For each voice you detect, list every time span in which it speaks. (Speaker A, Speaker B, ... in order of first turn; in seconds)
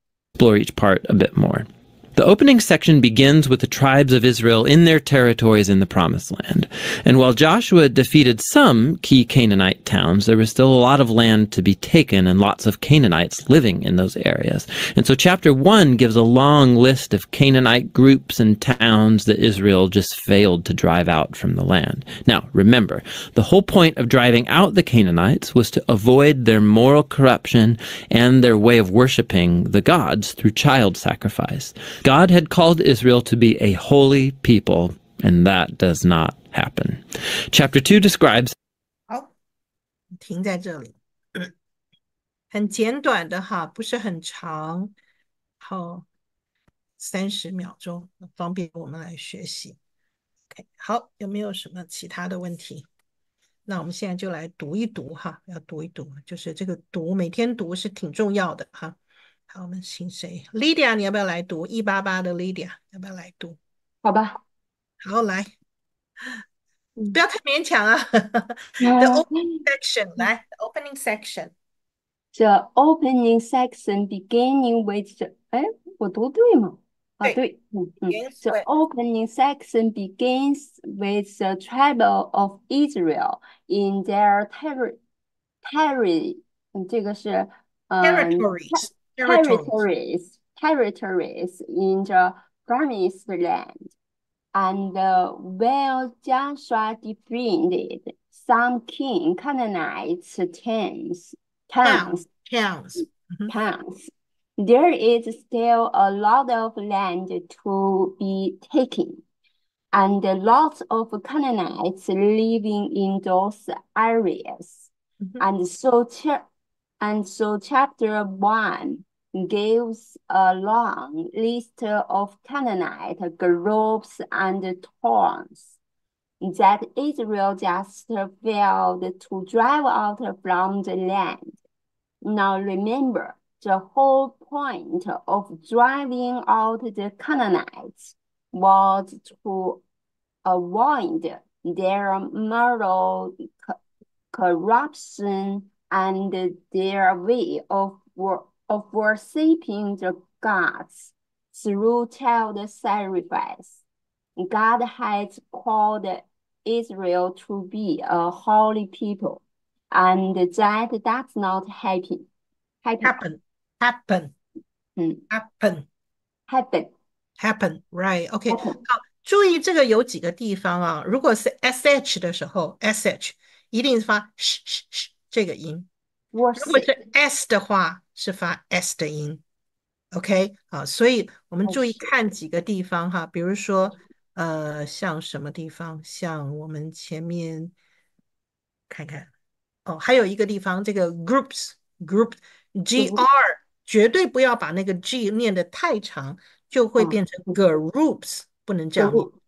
Speaker A: 0.4-38.5
Speaker B: 40.1-41.5, 42.5-44.9, 45.6-46.0, 47.0-49.8, 50.5-52.9, 53.7-59.0, 59.5-63.6, 65.0-65.5, 67.1-71.5, 78.1-78.7, 88.0-89.8, 101.8-103.5, 163.0-164.3, 165.3-165.9, 167.4-175.9, 176.6-179.4, 180.1-187.7, 188.9-189.3, 189.8-199.3
Speaker C: 64.0-64.4, 68.8-69.6, 72.3-85.0, 85.6-93.9, 94.5-102.2, 103.5-109.2, 109.9-116.4, 117.0-125.8, 126.4-131.6, 132.2-139.8, 140.4-143.8, 144.3-153.8, 154.4-162.3, 162.8-163.2, 165.0-165.2, 166.5-166.9, 168.5-168.8, 176.3-177.0, 181.7-182.1, 192.9-193.2, 197.0-197.5, 199.0-199.3